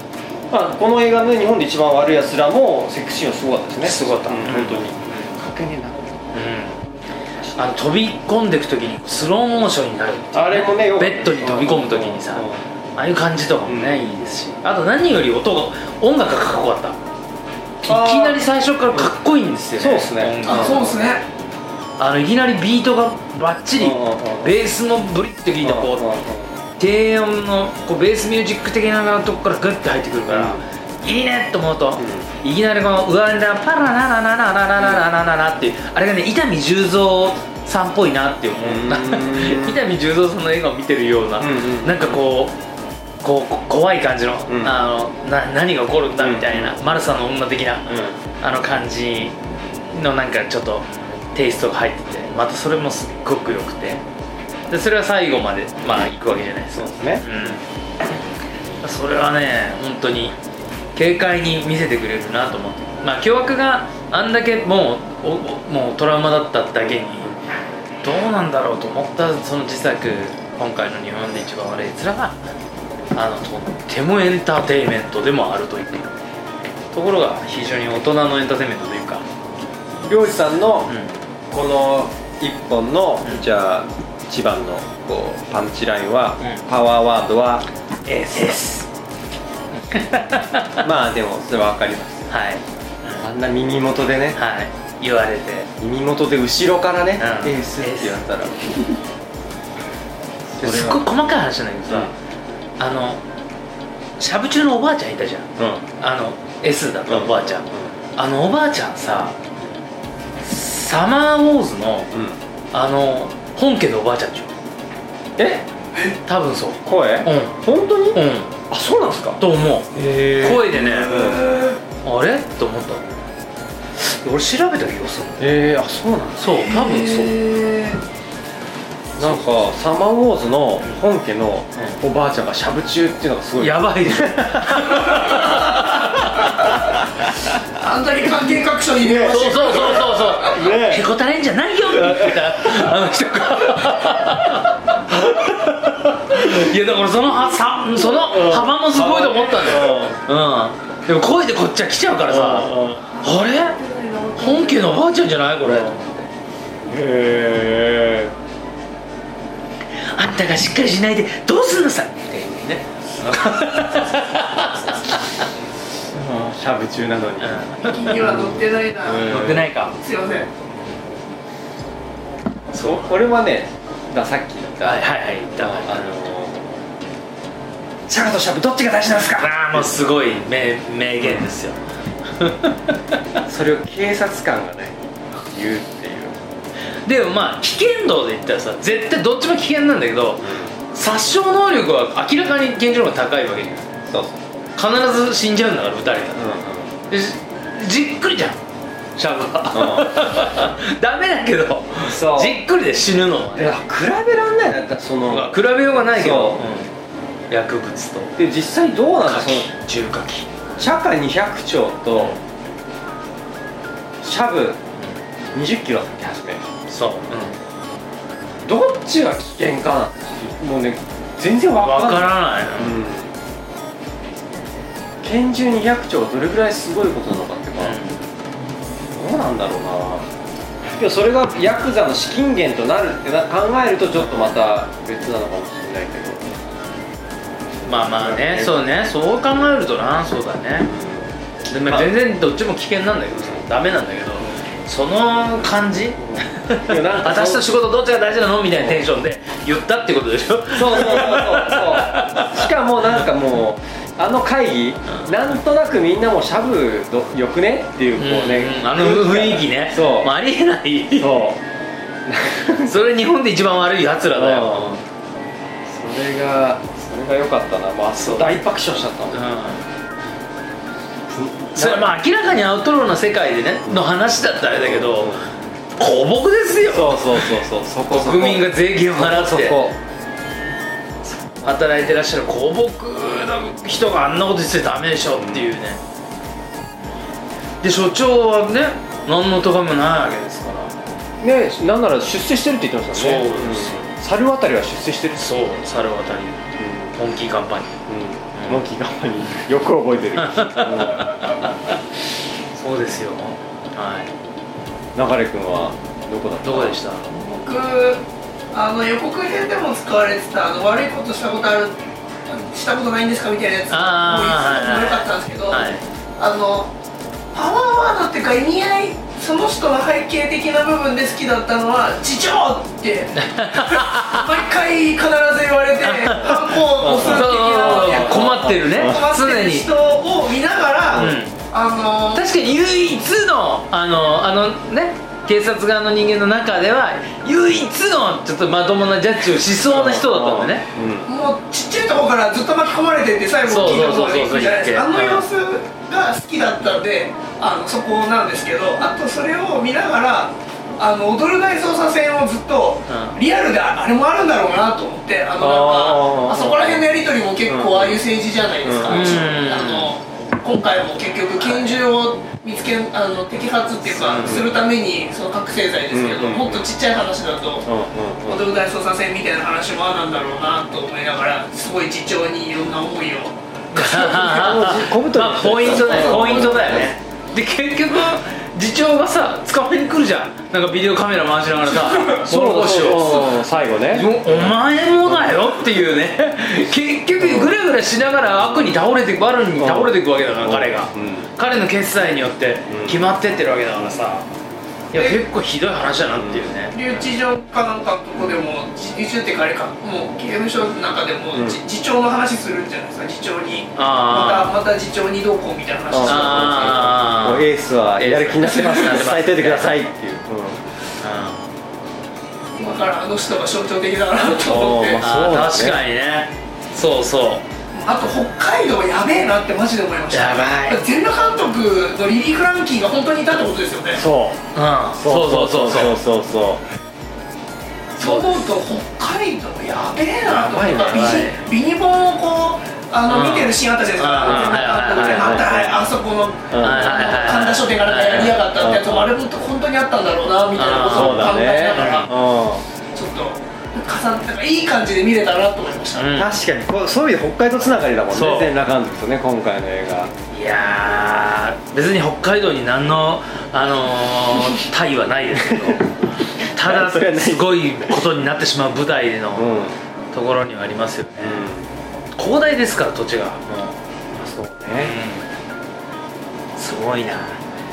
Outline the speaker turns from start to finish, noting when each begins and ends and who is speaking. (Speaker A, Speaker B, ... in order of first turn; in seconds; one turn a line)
Speaker A: 0.5-6.1
Speaker B: 3.8-4.9
Speaker B: 6.3-6.8
Speaker B: 7.5-12.5
Speaker A: 10.3-12.6
Speaker B: 13.0-17.0
Speaker A: 13.7-14.1
Speaker B: 17.8-21.0
Speaker A: 17.9-19.1
Speaker A: 19.8-21.0
Speaker C: 20.4-21.2
Speaker B: 22.0-26.1
Speaker A: 23.8-24.6
Speaker A: 25.6-26.6
Speaker B: 26.8-42.6
Speaker A: 30.3-30.6
Speaker A: 32.0-32.3
Speaker A: 38.6-39.8
Speaker A: 41.4-42.2
Speaker B: 43.2-49.4
Speaker A: 44.5-44.8
Speaker A: 46.2-46.8
Speaker A: 47.9-48.1
Speaker B: 49.9-54.0
Speaker B: 54.7-57.6
Speaker A: 56.7-57.3
Speaker B: 58.8-60.4
Speaker B: 61.0-67.3
Speaker A: 66.9-67.3
Speaker B: 68.0-72.4
Speaker B: 73.1-76.1
Speaker B: 76.9-79.2
Speaker A: 80.0-80.9
Speaker A: 81.5-87.7
Speaker B: 88.1-88.9
Speaker A: 88.2-88.7
Speaker B: 89.8-90.8
Speaker A: 90.8-92.3
Speaker B: 92.3-93.2
Speaker A: 93.2-94.4
Speaker B: 94.4-95.7
Speaker A: 95.8-98.7
Speaker B: 97.2-98.2
Speaker A: 100.5-101.0
Speaker B: 100.6-102.1
Speaker B: 102.8-103.2
Speaker B: 104.2-109.4
Speaker A: 107.1-107.9
Speaker B: 110.4-112.1
Speaker B: 112.7-114.5
Speaker A: 115.4-115.7
Speaker B: 116.3-117.6
Speaker A: 116.8-119.4
Speaker B: 118.1-118.5
Speaker B: 119.4-121.1
Speaker A: 120.0-121.6
Speaker C: 121.0-121.8
Speaker B: 122.0-123.2
Speaker B: 124.0-125.5
Speaker A: 125.4-126.7
Speaker B: 126.4-127.4
Speaker C: 126.7-128.0
Speaker A: 129.2-136.1
Speaker B: 133.6-136.7
Speaker C: 137.8-140.6
Speaker A: 139.0-141.1
Speaker B: 139.3-153.8
Speaker A: 141.9-142.6
Speaker A: 148.0-150.2
Speaker A: 152.2-153.0
Speaker C: 153.5-154.9
Speaker B: 154.4-156.1
Speaker A: 156.8-158.3
Speaker B: 160.1-165.5
Speaker A: 166.0-169.6
Speaker B: 167.4-168.2
Speaker C: 167.8-170.5
Speaker B: 169.1-169.9
Speaker B: 172.7-173.2
Speaker A: 172.8-176.8
Speaker B: 174.8-176.1
Speaker A: 178.1-180.0
Speaker B: 179.4-181.8
Speaker A: 181.2-181.5
Speaker B: 182.4-183.2
Speaker A: 183.5-186.4
Speaker B: 187.1-193.9
Speaker A: 190.4-190.7
Speaker A: 194.1-194.4
Speaker B: 194.8-196.5
Speaker A: 196.3-196.9
Speaker B: 197.1-198.6
Speaker B: 199.2-203.8
Speaker A: 199.7-200.4
Speaker A: 202.1-202.6
Speaker A: 203.6-206.7
Speaker B: 205.3-206.9
Speaker B: 207.5-208.3
Speaker A: 208.4-209.7
Speaker B: 209.3-210.5
Speaker A: 210.8-212.4
Speaker B: 212.2-212.4
Speaker A: 214.2-214.8
Speaker A: 215.5-216.7
Speaker B: 216.9-217.6
Speaker A: 218.6-223.3
Speaker B: 221.8-223.0
Speaker A: 225.2-228.0
Speaker B: 227.8-228.2
Speaker A: 229.1-230.3
Speaker A: 231.0-236.5
Speaker B: 234.2-234.5
Speaker B: 237.9-240.9
Speaker A: 238.1-238.8
Speaker A: 240.8-241.3
Speaker B: 241.7-252.7
Speaker A: 241.9-242.1
Speaker A: 246.4-247.7
Speaker A: 248.8-249.0
Speaker A: 250.7-260.3
Speaker B: 258.2-261.4
Speaker A: 261.2-261.6
Speaker A: 262.3-262.9
Speaker B: 262.8-265.0
Speaker A: 264.4-265.0
Speaker A: 265.9-269.5
Speaker B: 268.2-268.6
Speaker B: 269.3-269.8
Speaker A: 271.3-272.1
Speaker B: 271.8-275.4
Speaker A: 274.6-275.5
Speaker B: 276.0-279.8
Speaker A: 276.9-280.0
Speaker B: 281.6-286.0
Speaker A: 285.4-285.6
Speaker B: 287.8-290.9
Speaker A: 291.4-295.8
Speaker B: 293.1-294.1
Speaker B: 295.4-296.6
Speaker A: 296.8-297.1
Speaker B: 297.1-298.0
Speaker A: 298.1-301.6
Speaker B: 298.6-298.8
Speaker B: 300.4-301.9
Speaker B: 302.8-304.3
Speaker A: 305.2-307.0
Speaker B: 306.6-307.3
Speaker C: 307.3-316.9
Speaker B: 313.9-316.0
Speaker C: 317.5-332.5
Speaker B: 323.4-324.5
Speaker B: 326.0-329.9
Speaker A: 326.4-329.2
Speaker A: 331.1-331.4
Speaker B: 331.1-331.5
Speaker B: 332.3-340.9
Speaker A: 339.9-341.3
Speaker C: 341.3-367.9
Speaker B: 343.7-345.5
Speaker B: 353.1-353.4
Speaker A: 355.6-357.1
Speaker A: 357.7-358.2
Speaker A: 358.8-359.4
Speaker B: 359.1-360.1
Speaker A: 364.1-364.7
Speaker A: 366.1-366.9
Speaker A: 367.9-368.7
Speaker C: 368.5-373.6
Speaker B: 373.9-394.5
Speaker A: 374.0-377.1
Speaker C: 375.9-376.8
Speaker C: 382.0-382.4
Speaker A: 382.4-384.7
Speaker A: 385.3-385.7
Speaker A: 387.4-387.8
Speaker A: 388.6-389.0
Speaker A: 389.8-391.5
Speaker A: 392.9-393.2
Speaker B: 395.1-397.2
Speaker C: 395.1-395.4
Speaker A: 396.4-396.7
Speaker C: 396.9-407.0
Speaker A: 401.5-401.8
Speaker B: 404.0-404.7
Speaker A: 406.1-410.8
Speaker B: 406.2-409.9
Speaker C: 408.6-409.3
Speaker B: 411.2-411.6
Speaker C: 412.8-415.2
Speaker A: 414.6-416.0
Speaker B: 415.2-417.6
Speaker C: 417.9-424.2
Speaker B: 420.3-421.0
Speaker A: 424.1-424.6
Speaker B: 424.8-426.2
Speaker A: 425.1-426.8
Speaker C: 428.2-442.4
Speaker B: 428.2-428.7
Speaker A: 430.5-431.5
Speaker B: 430.5-431.6
Speaker B: 433.3-435.8
Speaker A: 434.5-436.0
Speaker A: 436.7-437.4
Speaker B: 436.8-438.7
Speaker A: 438.8-439.3
Speaker B: 440.8-442.3
Speaker A: 441.0-442.8
Speaker C: 443.1-446.3
Speaker B: 446.1-446.6
Speaker A: 446.3-450.3
Speaker B: 448.3-448.7
Speaker B: 450.5-459.7
Speaker A: 455.5-456.0
Speaker A: 456.8-458.2
Speaker A: 459.6-460.0
Speaker B: 460.3-461.6
Speaker A: 461.4-461.9
Speaker B: 462.4-464.0
Speaker A: 464.3-465.1
Speaker B: 465.0-465.4
Speaker B: 466.8-467.6